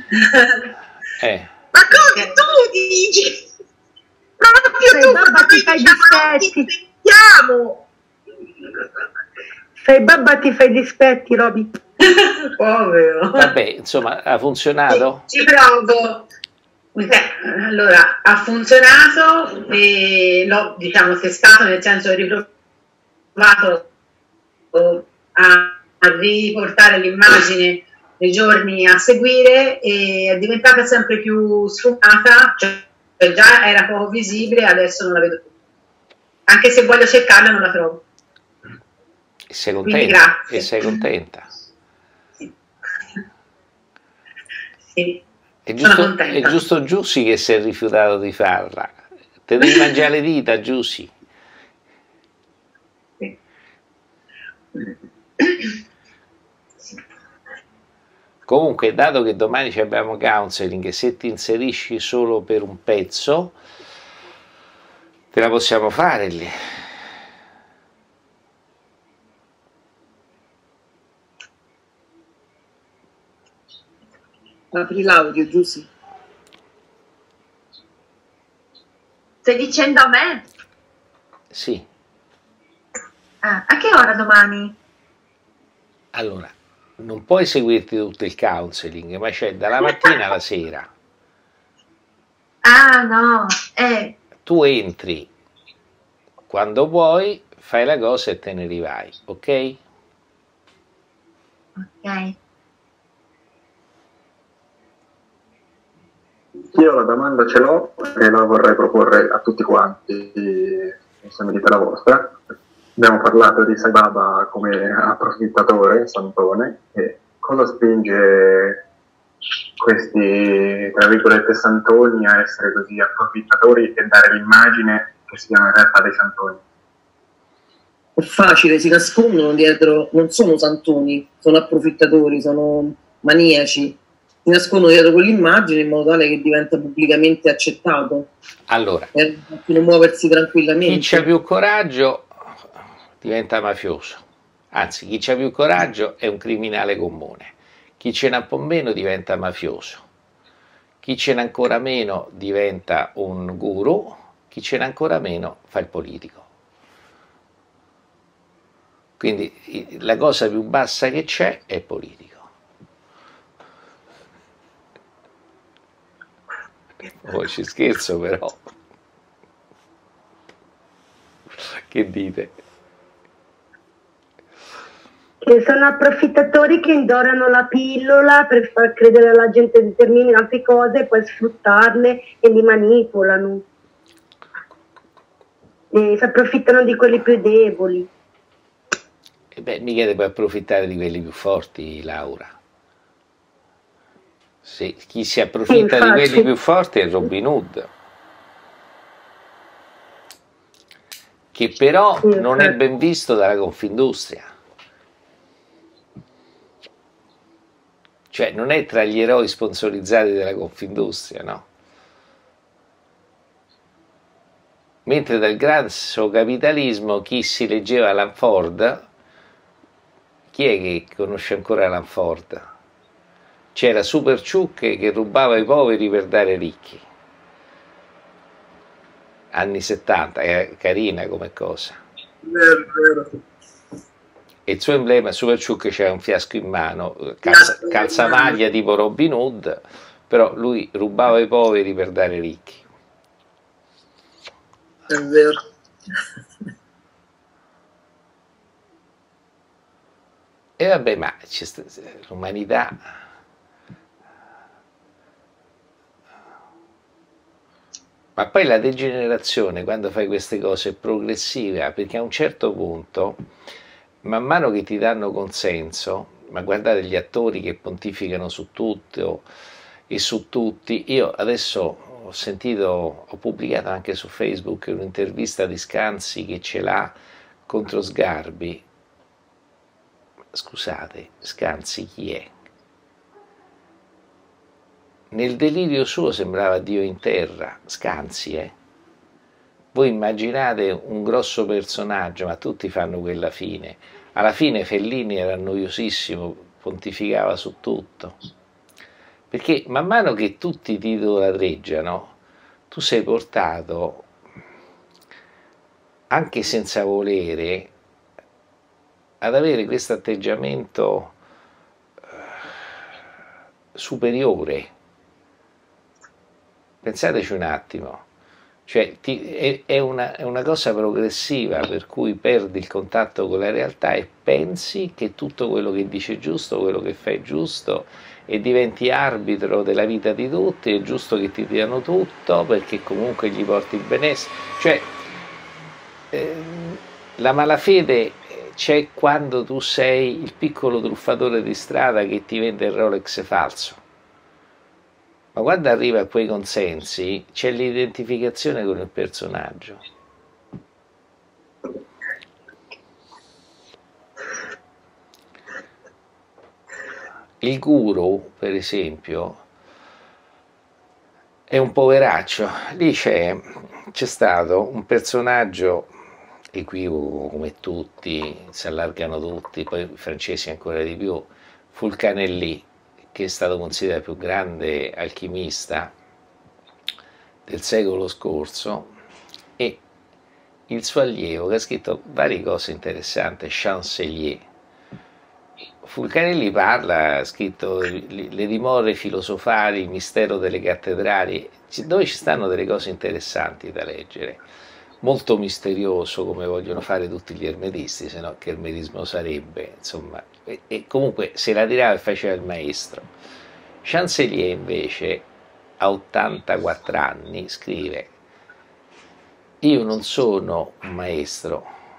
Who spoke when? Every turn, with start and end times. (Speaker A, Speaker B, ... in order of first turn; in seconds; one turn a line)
Speaker A: 0.1-0.6
Speaker B: 1.2-1.5
Speaker C: 1.7-3.5
Speaker A: 2.0-2.3
Speaker C: 4.4-7.9
Speaker D: 4.8-6.7
Speaker D: 9.8-11.7
Speaker A: 12.0-13.5
Speaker B: 13.3-15.2
Speaker A: 14.9-16.3
Speaker A: 16.9-22.5
Speaker A: 23.4-23.9
Speaker A: 24.7-35.5
Speaker A: 36.5-38.0
Speaker B: 39.5-41.5
Speaker A: 39.8-40.7
Speaker A: 44.9-45.2
Speaker B: 45.7-51.1
Speaker A: 45.8-46.6
Speaker B: 58.5-63.6
Speaker B: 65.3-66.5
Speaker E: 74.7-75.9
Speaker F: 79.4-80.5
Speaker B: 81.5-81.9
Speaker F: 83.4-84.8
Speaker B: 86.1-90.9
Speaker F: 92.6-94.2
Speaker B: 94.5-95.3
Speaker B: 96.5-99.8
Speaker F: 101.8-102.4
Speaker G: 106.7-112.4
Speaker G: 113.0-118.8
Speaker G: 119.8-126.6
Speaker E: 128.2-138.3
Speaker B: 138.7-139.1
Speaker E: 139.1-141.3
Speaker B: 140.8-142.3
Speaker B: 143.2-150.0
Speaker B: 151.0-156.4
Speaker B: 159.2-162.5
Speaker B: 167.2-168.7
Speaker B: 171.6-172.5
Speaker D: 175.4-183.6
Speaker D: 185.9-188.1
Speaker B: 189.5-192.6
Speaker B: 194.6-197.9
Speaker D: 195.7-196.5
Speaker B: 201.5-204.5
Speaker D: 202.2-202.8
Speaker B: 208.3-211.7
Speaker B: 215.1-219.1
Speaker B: 220.5-222.7
Speaker B: 223.8-227.0
Speaker B: 229.5-232.0
Speaker E: 232.4-233.3
Speaker B: 234.7-242.8
Speaker E: 237.5-238.4
Speaker E: 245.1-245.6
Speaker B: 250.8-253.0
Speaker B: 258.4-263.4
Speaker B: 264.2-269.5
Speaker B: 270.1-277.1
Speaker B: 277.7-278.8
Speaker B: 280.5-282.5
Speaker B: 285.3-288.8
Speaker B: 289.9-298.4
Speaker B: 299.5-302.4
Speaker B: 302.9-304.3
Speaker B: 306.3-307.9
Speaker B: 309.4-311.3
Speaker B: 313.9-314.9
Speaker B: 317.0-318.2
Speaker B: 318.9-335.1
Speaker B: 336.3-344.0
Speaker B: 345.5-350.0
Speaker B: 357.6-359.6
Speaker B: 361.7-366.1
Speaker B: 366.7-376.1
Speaker B: 377.7-379.1
Speaker B: 380.9-384.6
Speaker B: 386.0-394.6
Speaker B: 395.2-403.3
Speaker B: 404.0-405.5
Speaker B: 406.0-408.3
Speaker B: 409.8-411.9